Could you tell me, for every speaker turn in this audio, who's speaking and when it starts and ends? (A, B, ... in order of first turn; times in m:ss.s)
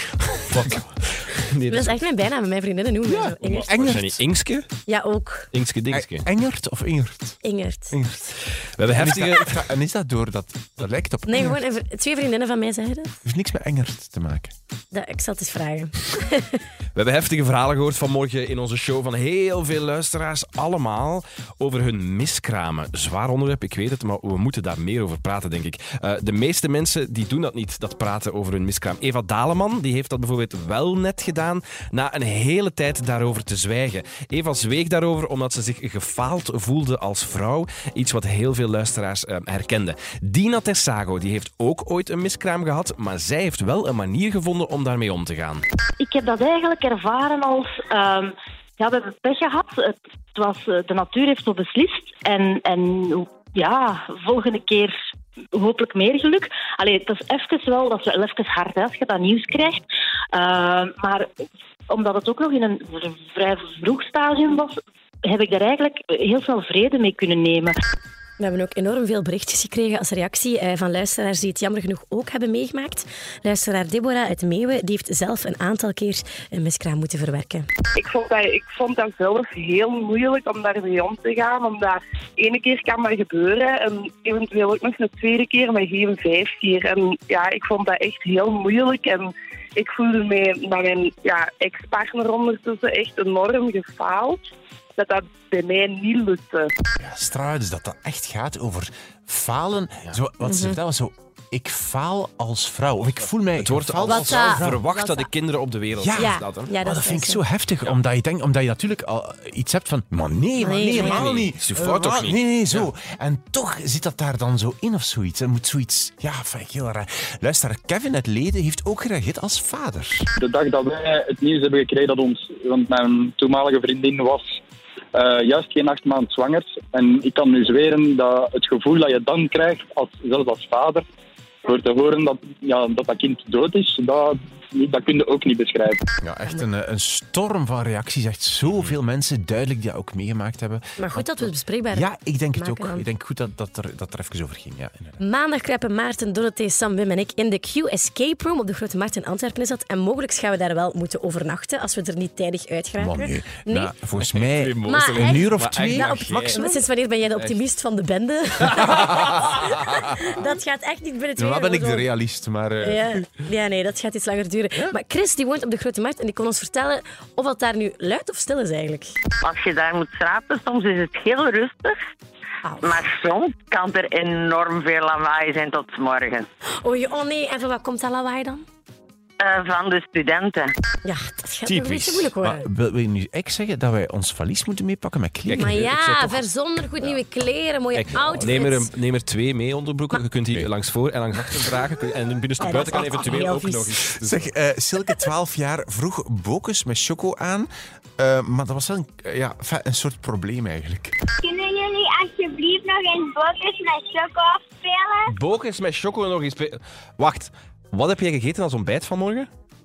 0:00.5-0:02.0 A
0:01.7-0:03.9 B
0:03.1-0:04.2 C
0:03.4-0:04.7 A
0:04.9-0:05.5 B
0:05.5-0:06.2 A
0:05.9-0:11.6 C
0:07.4-0:07.9 B
0:08.8-0:09.6 A
0:11.3-0:13.2 B
0:13.2-0:14.5 C
0:14.9-0:16.6 B
0:16.9-0:45.6 A
0:46.0-0:55.0 D
0:55.5-0:59.8 D
1:00.3-1:01.3 D
1:01.9-1:07.7 D
1:08.4-1:17.7 B
1:18.0-1:29.2 E
1:29.8-1:34.3 E
1:35.0-1:36.6 E
1:37.0-1:44.8 C
1:40.4-1:40.8 B
1:43.6-1:46.7 A
1:44.0-1:45.3 B
1:46.0-2:00.3 C
1:46.2-1:47.4 B
1:50.6-1:51.2 B
1:50.9-1:52.9 A
2:00.4-2:04.6 F
2:05.1-2:11.0 F
2:11.6-2:16.0 F
2:16.2-2:25.2 C
2:21.0-2:23.0 B
2:25.2-2:33.9 B
2:33.0-2:36.7 C
2:34.2-2:36.6 A
2:34.8-2:42.1 B
2:41.4-2:43.2 C
2:42.8-2:49.1 B
2:49.4-2:52.0 G
2:52.6-2:53.0 B
2:52.8-2:56.4 G
2:56.8-2:58.6 B
2:59.4-3:00.7 G
3:01.0-3:02.6 B
3:01.6-3:02.3 A
3:02.4-3:05.9 C
3:05.4-3:06.4 A
3:05.6-3:08.9 B
3:07.9-3:14.5 A
3:08.2-3:08.6 C
3:12.6-3:13.9 B
3:14.2-3:21.2 C
3:21.4-3:25.4 H
3:25.3-3:29.5 A